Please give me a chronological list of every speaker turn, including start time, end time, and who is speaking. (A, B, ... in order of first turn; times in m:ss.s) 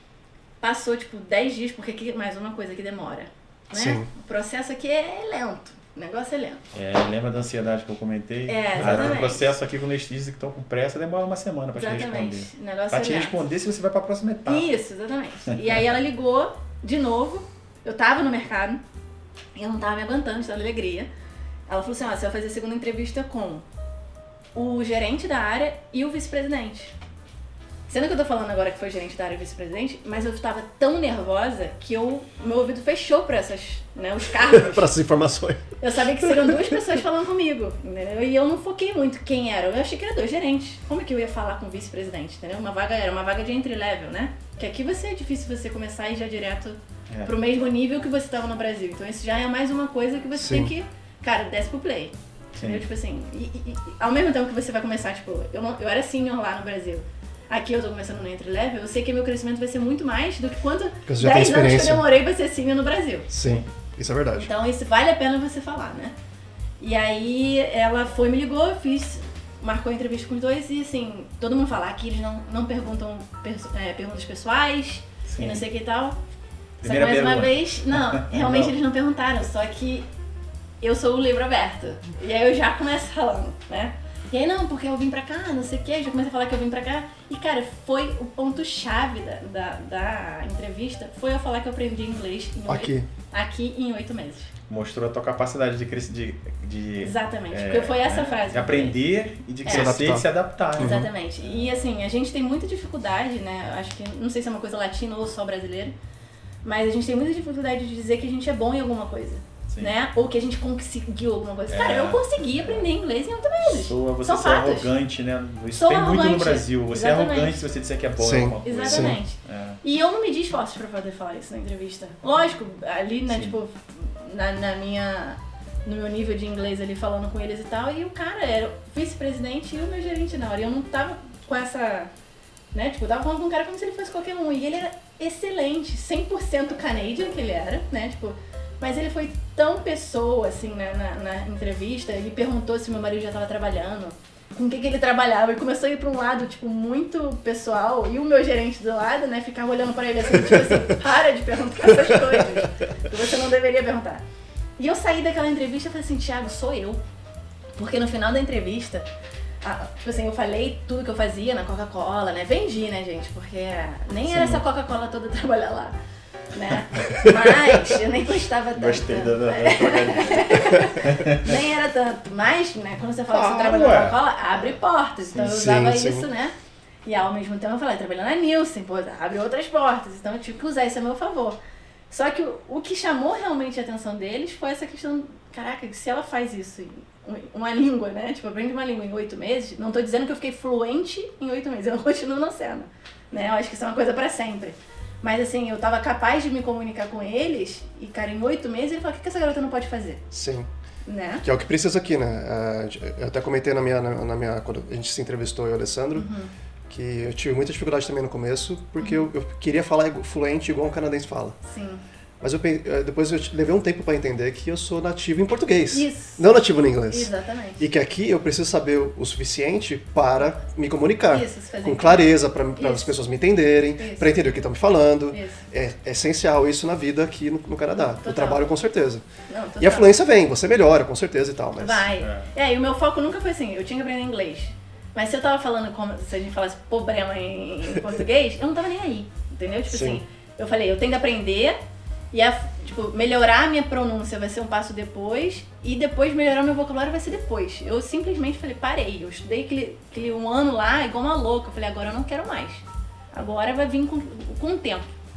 0:00.6-0:06.6 A
0:03.7-0:04.1 B
0:06.7-0:14.7 C
0:08.5-0:09.5 A
0:11.7-0:13.4 A
0:14.4-0:18.8 A
0:19.6-0:21.1 A
0:21.7-0:23.6 A
0:24.5-0:26.9 A
0:27.9-0:34.9 A
0:34.4-0:35.6 B
0:35.8-1:03.3 A
0:36.2-0:36.6 B
0:50.3-0:50.7 B
0:52.6-0:52.8 C
1:01.1-1:02.0 B
1:03.3-1:04.5 B
1:04.3-1:06.1 A
1:06.8-1:16.2 A
1:15.2-1:15.6 C
1:16.8-1:20.1 A
1:16.8-1:18.7 C
1:20.8-1:34.5 A
1:32.7-1:33.1 B
1:34.7-1:41.7 C
1:37.0-1:39.0 A
1:39.6-1:39.9 A
1:39.7-1:40.2 B
1:40.8-1:41.1 B
1:40.8-1:45.9 A
1:46.6-1:54.9 A
1:51.7-1:52.9 C
1:53.7-1:59.8 C
1:55.8-1:57.6 A
1:58.2-1:59.2 B
1:58.6-2:12.1 A
2:03.3-2:03.6 C
2:12.7-2:34.2 A
2:34.8-2:37.0 A
2:37.8-2:39.0 A
2:39.6-2:46.0 A
2:44.3-2:44.6 C
2:46.5-2:56.5 A
2:48.8-2:51.6 C
2:53.3-2:54.2 C
2:55.3-2:56.3 B
2:57.0-3:01.6 A
3:02.1-3:20.2 A
3:20.3-3:20.7 B
3:21.0-3:21.4 A
3:21.4-3:26.3 B
3:26.2-3:26.5 A
3:26.9-3:31.6 B
3:31.6-3:32.0 A
3:32.4-3:49.2 B
3:35.9-3:37.8 A
3:41.3-3:43.1 A
3:44.0-3:44.4 A
3:45.3-3:45.6 A
3:48.2-3:48.6 A
3:49.5-3:50.1 A
3:49.8-3:52.1 B
3:51.8-4:01.8 A
3:52.2-3:52.5 C
3:59.9-4:00.2 B
4:02.3-4:15.0 A